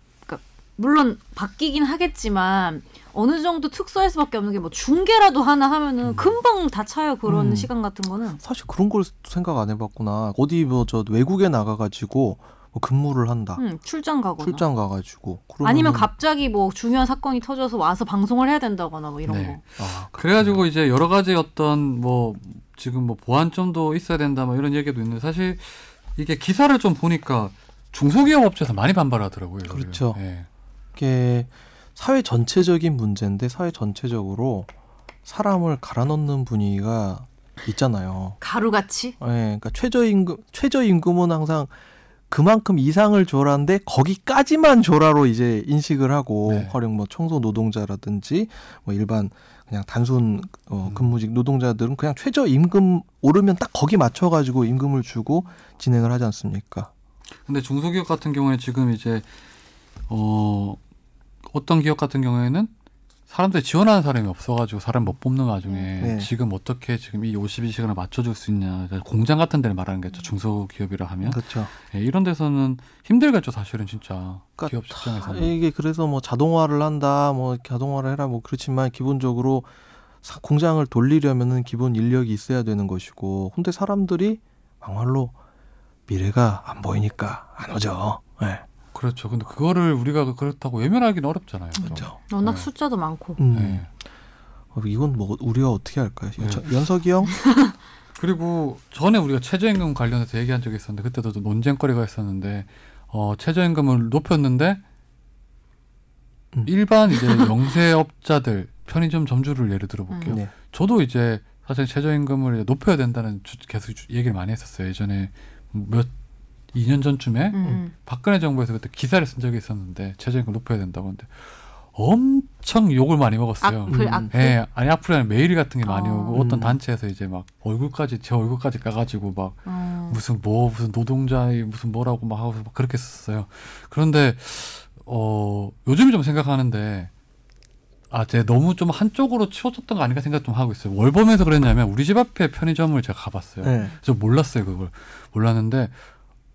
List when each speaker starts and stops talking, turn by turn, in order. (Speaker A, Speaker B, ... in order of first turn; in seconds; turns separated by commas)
Speaker A: 0.3-8.4, Speaker B: 7.3-7.7, Speaker B: 8.4-13.6, Speaker A: 13.6-14.7, Speaker B: 14.4-16.1, Speaker A: 15.6-19.6, Speaker C: 19.3-30.5, Speaker B: 19.8-20.6, Speaker B: 29.7-30.2, Speaker B: 31.0-34.7, Speaker B: 35.3-38.4, Speaker A: 38.4-39.1, Speaker B: 39.2-41.7, Speaker B: 42.3-56.9, Speaker C: 46.5-46.7, Speaker C: 50.9-51.1, Speaker C: 57.5-59.3, Speaker C: 60.1-60.8, Speaker C: 61.5-62.7, Speaker C: 63.3-75.5, Speaker B: 66.0-66.3, Speaker B: 71.2-71.7, Speaker B: 74.6-79.7, Speaker B: 80.2-85.3, Speaker B: 86.1-88.7, Speaker C: 88.9-92.7, Speaker A: 91.8-93.4, Speaker B: 91.8-92.2, Speaker B: 93.4-93.9, Speaker C: 93.5-93.9, Speaker B: 94.7-97.3, Speaker A: 97.3-97.8, Speaker C: 98.2-104.8, Speaker C: 106.7-116.1, Speaker A: 110.1-110.4, Speaker B: 110.3-110.5, Speaker C: 116.7-137.1, Speaker A: 117.5-117.9, Speaker A: 123.6-124.6, Speaker B: 123.9-124.3, Speaker A: 125.8-126.4, Speaker B: 126.3-126.8, Speaker A: 129.7-130.2, Speaker C: 138.1-145.9, Speaker B: 143.6-143.9